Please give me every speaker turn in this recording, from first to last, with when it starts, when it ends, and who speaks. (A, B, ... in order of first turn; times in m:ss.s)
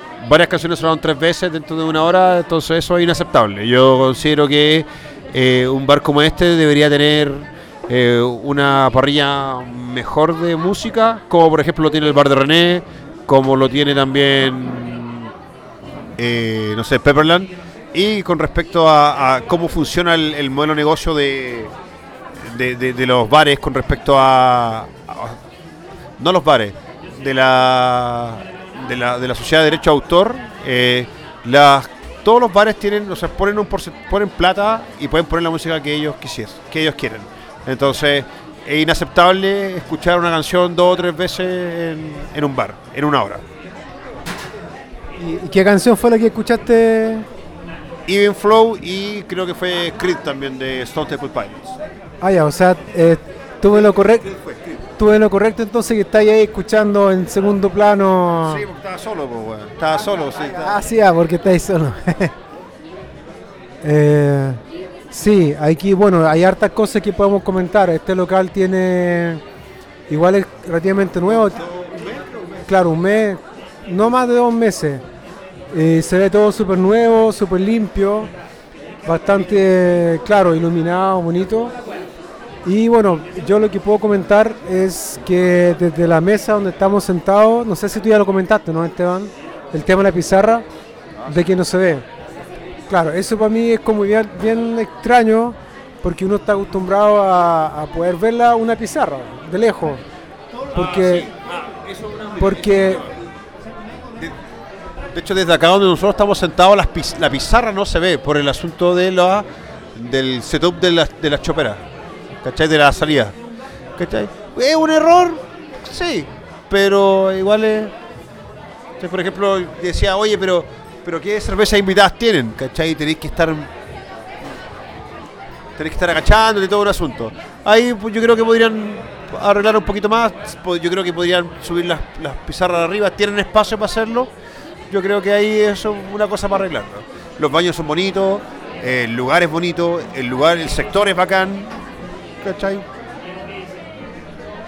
0:00.2-0:15.3 A
0:16.2-0:21.7 A
0:22.4-0:25.4 A
0:26.2-0:43.4 A
0:45.2-0:47.3 B
0:48.1-0:51.8 A
0:52.2-0:54.3 B
0:55.0-0:58.6 B
0:58.4-1:00.8 A
1:00.6-1:02.4 B
1:03.8-1:09.4 B
1:10.1-1:11.7 B
1:12.7-1:15.0 B
1:15.7-1:18.3 B
1:19.0-1:21.7 B
1:22.6-1:30.7 B
1:31.3-1:32.1 B
1:32.9-1:40.0 B
1:40.7-1:41.3 B
1:40.8-1:42.9 A
1:42.4-1:43.1 B
1:45.1-1:51.8 A
1:52.4-1:53.4 A
1:54.0-1:57.9 A
1:59.0-2:03.7 A
2:05.8-2:14.3 A
2:14.9-2:21.7 A
2:22.4-2:22.8 A